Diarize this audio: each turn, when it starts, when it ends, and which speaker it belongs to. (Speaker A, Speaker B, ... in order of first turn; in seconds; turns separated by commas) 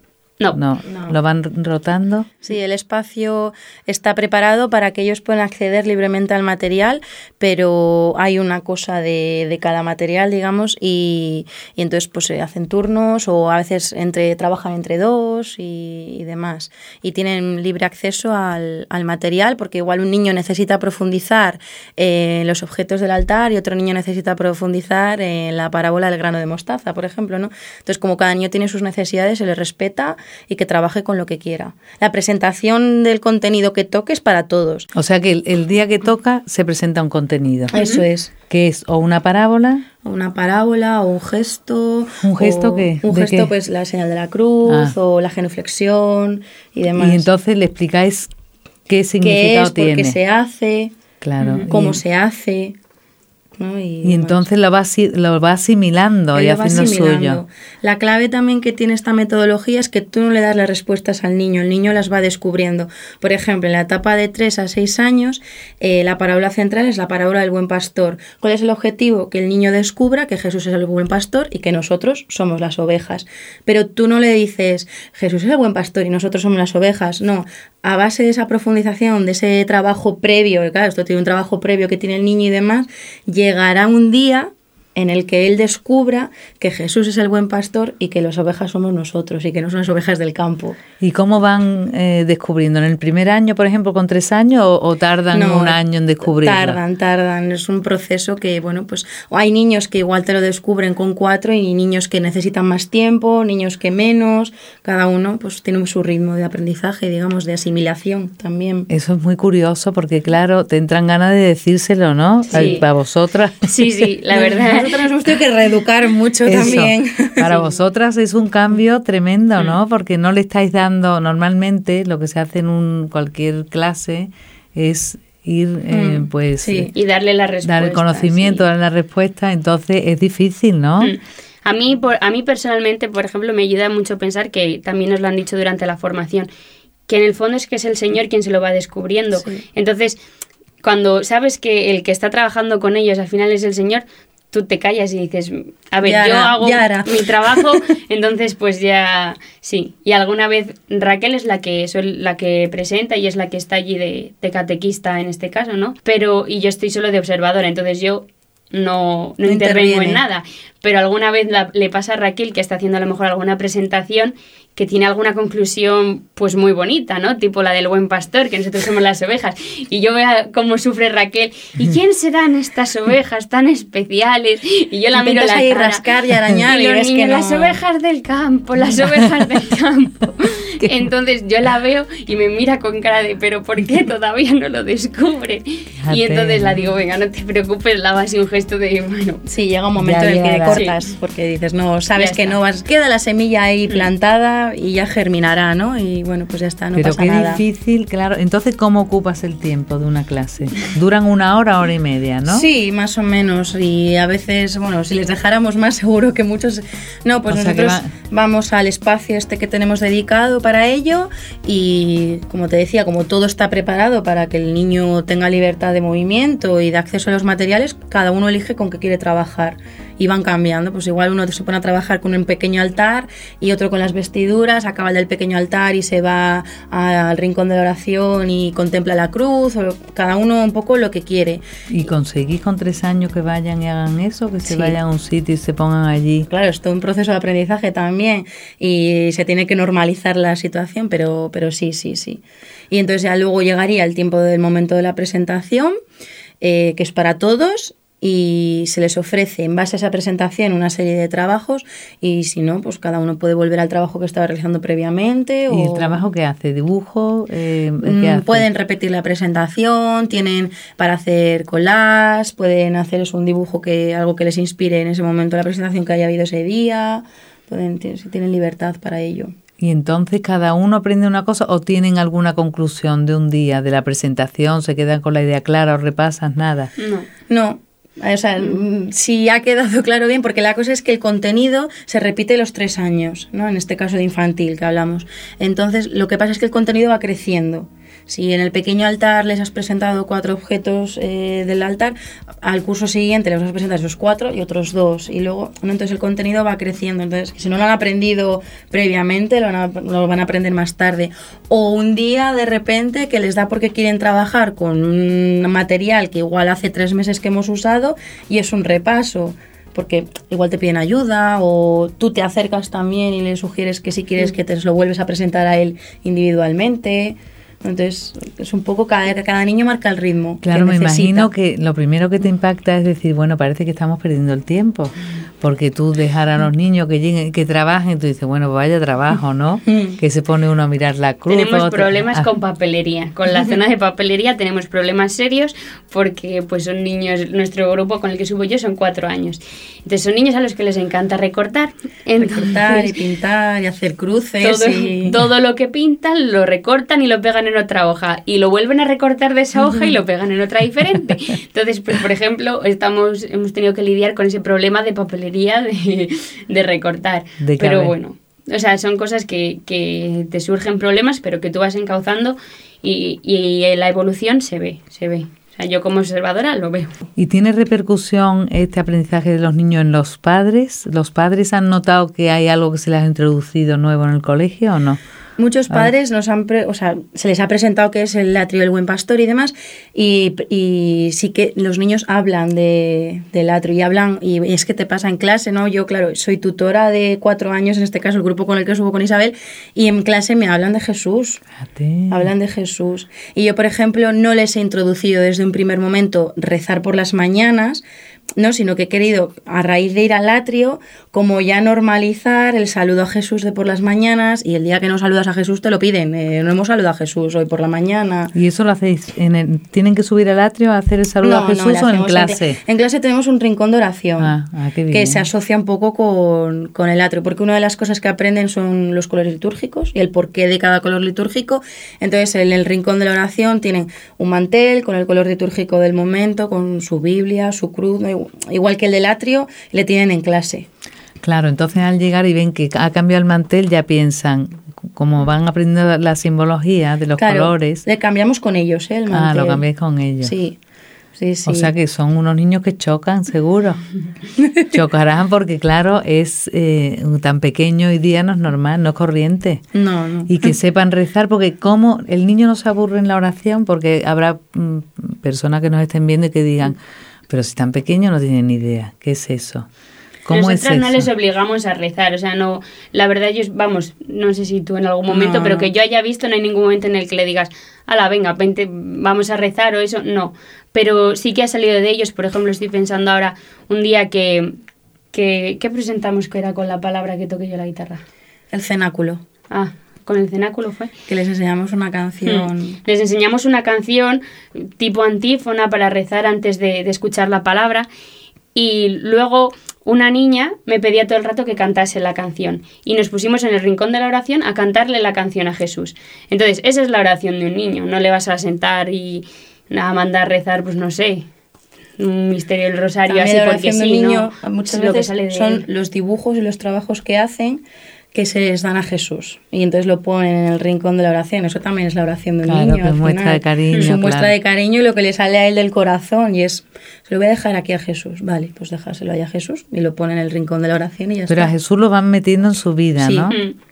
Speaker A: 0.5-2.3, Speaker B: 0.9-1.1, Speaker B: 2.4-34.9, Speaker A: 34.9-37.7, Speaker C: 37.7-38.0, Speaker B: 37.7-38.3, Speaker A: 38.5-39.8, Speaker B: 40.0-47.2, Speaker A: 42.2-43.5, Speaker A: 44.6-45.0, Speaker A: 46.9-48.3, Speaker A: 48.9-50.2, Speaker B: 49.2-50.9, Speaker A: 51.2-52.0, Speaker C: 51.4-51.7, Speaker B: 51.7-52.7, Speaker B: 53.6-54.4, Speaker A: 54.0-57.4, Speaker B: 56.3-90.8, Speaker A: 91.0-96.8, Speaker B: 95.3-95.8, Speaker B: 96.4-108.9, Speaker A: 108.9-114.1, Speaker C: 112.5-112.8, Speaker B: 112.5-112.8, Speaker C: 113.6-115.0, Speaker B: 114.3-117.5, Speaker A: 116.4-126.9, Speaker B: 125.9-126.9, Speaker C: 126.9-128.7, Speaker A: 127.6-131.1, Speaker C: 131.0-136.5, Speaker C: 137.1-140.2, Speaker C: 140.8-176.1, Speaker B: 146.0-147.8, Speaker B: 159.4-160.2, Speaker B: 175.1-177.8, Speaker C: 176.6-189.4, Speaker A: 180.8-181.1, Speaker A: 186.0-186.7, Speaker B: 189.4-197.6, Speaker A: 189.9-190.8, Speaker C: 190.7-191.0, Speaker C: 192.2-192.5, Speaker A: 196.9-202.7, Speaker B: 202.5-231.6, Speaker A: 207.5-208.1, Speaker A: 231.9-236.5, Speaker B: 234.6-235.0, Speaker B: 236.5-245.9, Speaker B: 246.6-256.2, Speaker A: 255.7-258.7, Speaker B: 258.0-269.5, Speaker A: 269.8-276.9, Speaker C: 277.0-277.3, Speaker B: 277.5-321.5, Speaker A: 320.6-332.5, Speaker B: 329.9-330.2, Speaker C: 331.5-343.1, Speaker B: 342.4-345.3, Speaker C: 344.6-367.2, Speaker A: 357.6-358.1, Speaker A: 367.4-375.2, Speaker B: 375.6-391.6, Speaker A: 391.8-392.5, Speaker B: 392.3-398.0, Speaker B: 398.6-408.5, Speaker A: 408.6-412.8, Speaker B: 411.4-414.6, Speaker A: 414.4-415.4, Speaker B: 415.1-430.9, Speaker A: 431.4-438.0, Speaker B: 437.4-439.8, Speaker A: 439.3-440.6, Speaker B: 440.4-440.8, Speaker B: 441.4-441.9, Speaker A: 441.7-444.0, Speaker B: 444.6-444.9, Speaker A: 444.9-449.8, Speaker B: 449.9-450.7, Speaker A: 450.5-457.0, Speaker A: 457.5-459.9, Speaker A: 460.4-461.3, Speaker C: 460.5-474.8, Speaker B: 465.3-465.9, Speaker C: 475.3-478.2, Speaker B: 478.7-479.4, Speaker C: 479.7-481.1, Speaker B: 481.3-483.0, Speaker C: 482.4-488.1, Speaker C: 488.7-501.5, Speaker C: 502.2-505.8, Speaker B: 503.3-507.8, Speaker B: 508.3-521.7, Speaker A: 512.6-514.5, Speaker A: 521.5-523.5, Speaker B: 523.2-523.5